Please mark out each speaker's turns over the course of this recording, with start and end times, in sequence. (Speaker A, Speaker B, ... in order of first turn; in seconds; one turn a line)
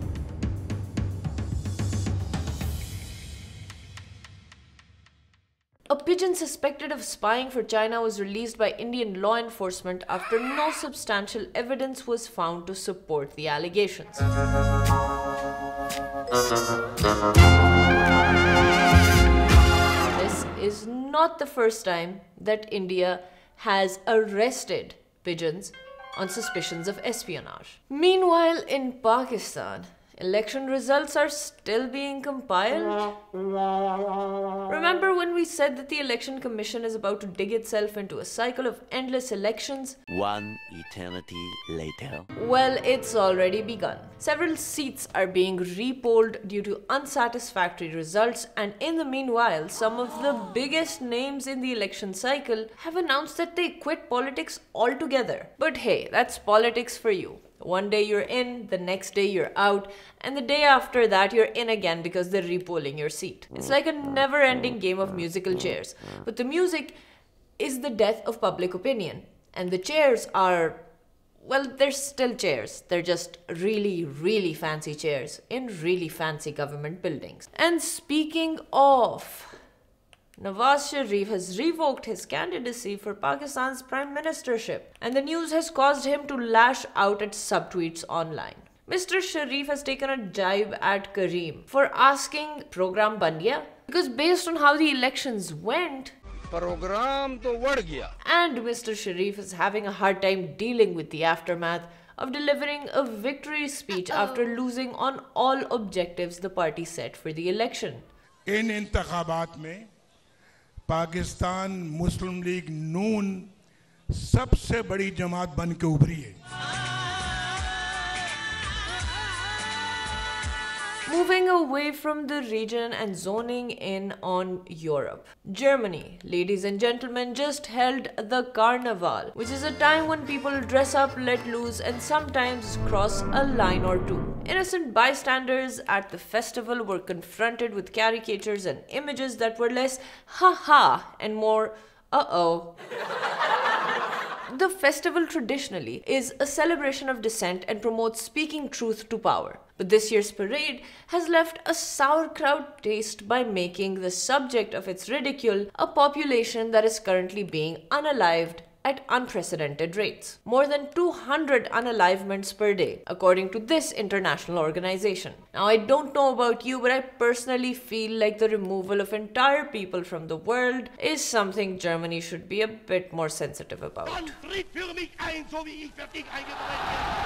Speaker A: 5.9-14.2
Speaker A: 20.1-33.1
Speaker A: 34.7-40.0
Speaker B: 40.1-42.3
Speaker A: 42.3-66.9
Speaker A: 67.6-70.8
Speaker A: 71.4-79.6
Speaker A: 80.4-96.1
Speaker C: 96.5-98.1
Speaker A: 98.2-108.0
Speaker D: 108.5-109.9
Speaker D: 110.9-113.5
Speaker D: 114.1-116.4
Speaker A: 121.0-142.7
Speaker A: 144.5-174.4
Speaker C: 174.3-177.1